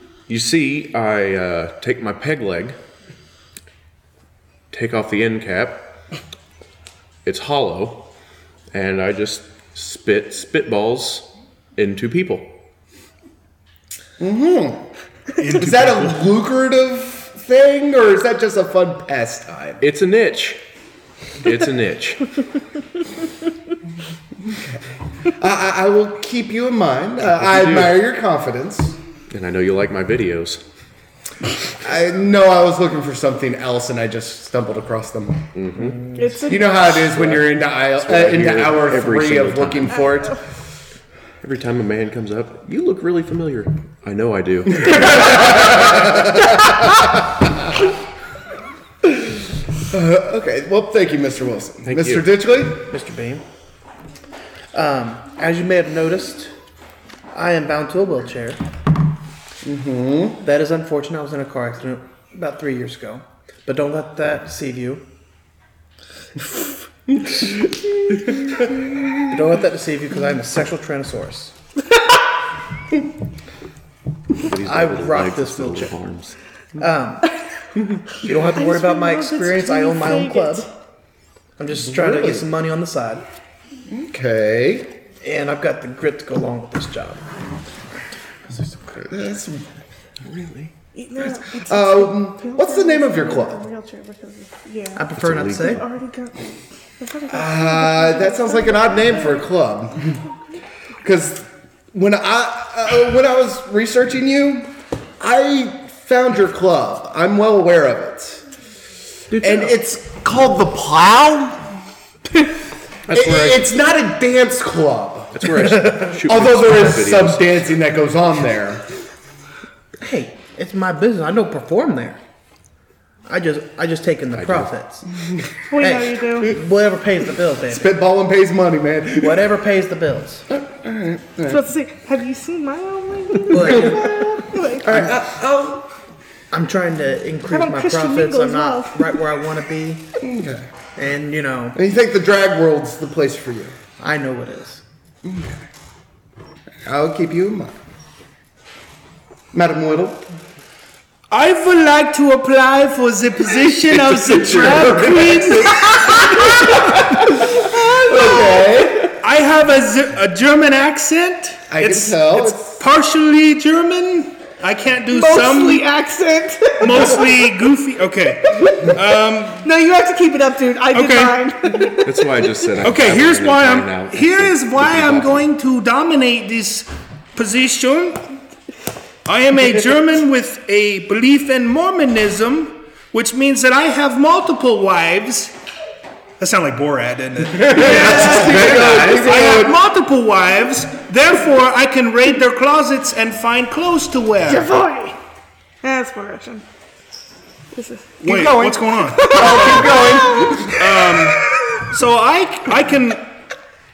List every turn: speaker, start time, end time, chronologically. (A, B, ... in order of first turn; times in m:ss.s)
0:00.3-0:02.8 A
0:04.7-0:05.8 A
0:07.2-0:08.1 A
0:08.7-0:12.5 A
0:14.2-0:14.8 B
0:15.4-0:16.3 C
0:15.5-0:19.8 B
0:19.8-0:20.6 A
0:21.4-0:22.3 A
0:24.4-0:29.0 B
0:27.3-0:28.0 A
0:29.3-0:30.6 A
0:31.8-0:35.5 B
0:35.5-0:36.1 A
0:36.2-0:36.8 D
0:36.4-0:40.4 B
0:36.9-0:40.0 A
0:41.4-0:45.9 A
0:44.8-0:47.7 B
0:49.9-0:52.9 B
0:51.8-0:52.3 A
0:52.9-0:53.4 E
0:54.7-0:56.5 E
0:57.3-0:58.6 E
0:59.6-1:00.4 B
1:00.4-1:05.0 E
1:09.3-1:11.5 E
1:14.4-1:16.4 A
1:14.6-1:15.9 E
1:16.8-1:17.3 E
1:18.1-1:20.7 E
1:18.5-1:20.7 D
1:21.6-1:23.2 E
1:22.0-1:22.4 B
1:23.9-1:25.0 B
1:25.2-1:27.2 E
1:28.5-1:28.9 E
1:29.0-1:29.7 B
1:30.2-1:30.7 A
1:30.9-1:36.5 D
1:31.2-1:33.6 B
1:35.0-1:35.8 E
1:35.1-1:35.8 A
1:37.0-1:39.4 D
1:37.3-1:40.2 B
1:41.0-1:48.4 B
1:49.3-1:49.7 A
1:49.3-1:51.7 B
1:53.1-1:53.7 A
1:53.1-1:58.8 B
1:55.3-1:57.6 A
2:00.0-2:02.2 E
2:03.2-2:05.0 E
2:04.3-2:04.7 A
2:05.7-2:06.5 D
2:05.8-2:07.9 E
2:07.7-2:09.6 B
2:09.2-2:10.4 E
2:10.5-2:11.6 B
2:11.5-2:14.9 D
2:13.5-2:14.2 E
2:13.6-2:14.1 B
2:14.8-2:15.8 B
2:14.8-2:15.2 E
2:16.5-2:20.1 E
2:17.5-2:19.1 D
2:20.2-2:20.7 B
2:21.0-2:21.8 E
2:21.7-2:23.7 B
2:24.0-2:24.8 E
2:25.2-2:25.6 B
2:26.8-2:27.8 B
2:29.5-2:30.2 B
2:31.3-2:36.2 C
2:34.2-2:39.1 B
2:36.2-2:36.7 D
2:37.6-2:38.8 D
2:39.2-2:45.9 C
2:41.7-2:42.8 B
2:45.1-2:47.3 D
2:46.8-2:49.7 C
2:48.6-2:48.9 D
2:49.6-2:52.6 D
2:50.9-2:51.4 C
2:52.0-2:55.4 A
2:52.8-2:58.2 C
2:59.2-3:05.5 C
3:06.4-3:14.7 C
3:07.5-3:09.8 B
3:14.4-3:15.2 D
3:15.8-3:16.6 D
3:17.7-3:18.2 D
3:18.2-3:20.0 C
3:18.2-3:21.2 B
3:19.1-3:20.8 D
3:20.8-3:23.2 C